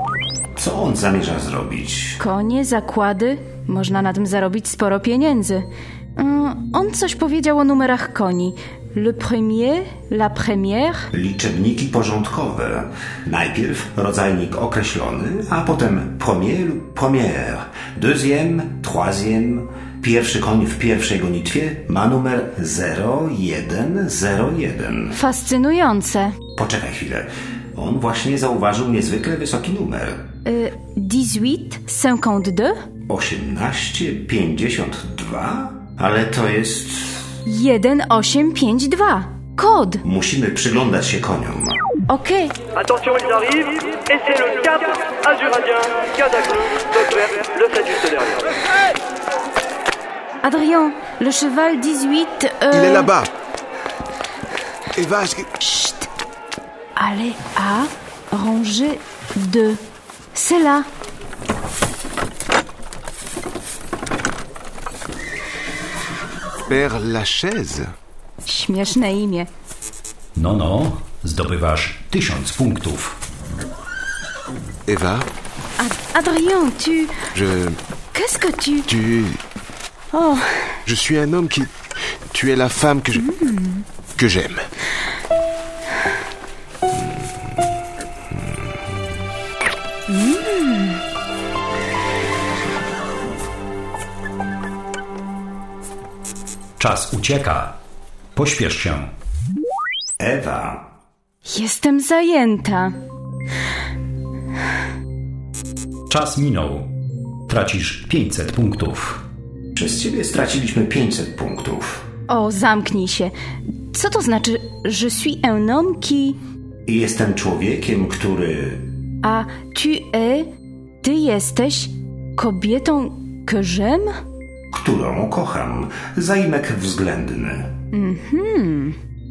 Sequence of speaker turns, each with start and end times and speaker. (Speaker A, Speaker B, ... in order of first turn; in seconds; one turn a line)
Speaker A: 0.6-2.2
Speaker B: 2.2-11.1
Speaker A: 11.1-25.2
Speaker B: 25.1-26.4
Speaker A: 26.6-30.2
Speaker B: 30.4-32.8
Speaker A: 33.1-37.3
Speaker B: 37.5-40.0
Speaker A: 40.0-41.8
Speaker B: 42.1-42.5
Speaker C: 42.9-45.9
Speaker C: 47.2-48.4
Speaker B: 50.4-53.1
Speaker D: 52.7-53.3
Speaker D: 55.0-55.5
Speaker B: 55.6-56.1
Speaker B: 57.0-59.8
Speaker B: 60.3-60.9
Speaker D: 66.7-67.9
Speaker B: 68.5-69.5
Speaker E: 70.4-73.2
Speaker D: 74.9-75.3
Speaker B: 75.8-77.1
Speaker D: 77.3-77.8
Speaker B: 78.1-78.9
Speaker D: 78.9-79.4
Speaker B: 80.1-80.5
Speaker D: 80.8-81.7
Speaker D: 82.3-83.3
Speaker B: 83.3-83.8
Speaker D: 84.2-84.6
Speaker B: 90.1-91.0
Speaker E: 96.8-97.8
Speaker E: 98.3-99.1
Speaker A: 100.2-100.8
Speaker B: 101.5-102.9
Speaker E: 106.1-106.9
Speaker E: 107.5-109.2
Speaker A: 109.8-112.0
Speaker B: 112.3-113.3
Speaker B: 113.9-116.4
Speaker A: 116.9-118.8
Speaker B: 119.2-120.5
Speaker B: 121.0-124.1
Speaker A: 124.7-127.7
Speaker B: 127.9-129.0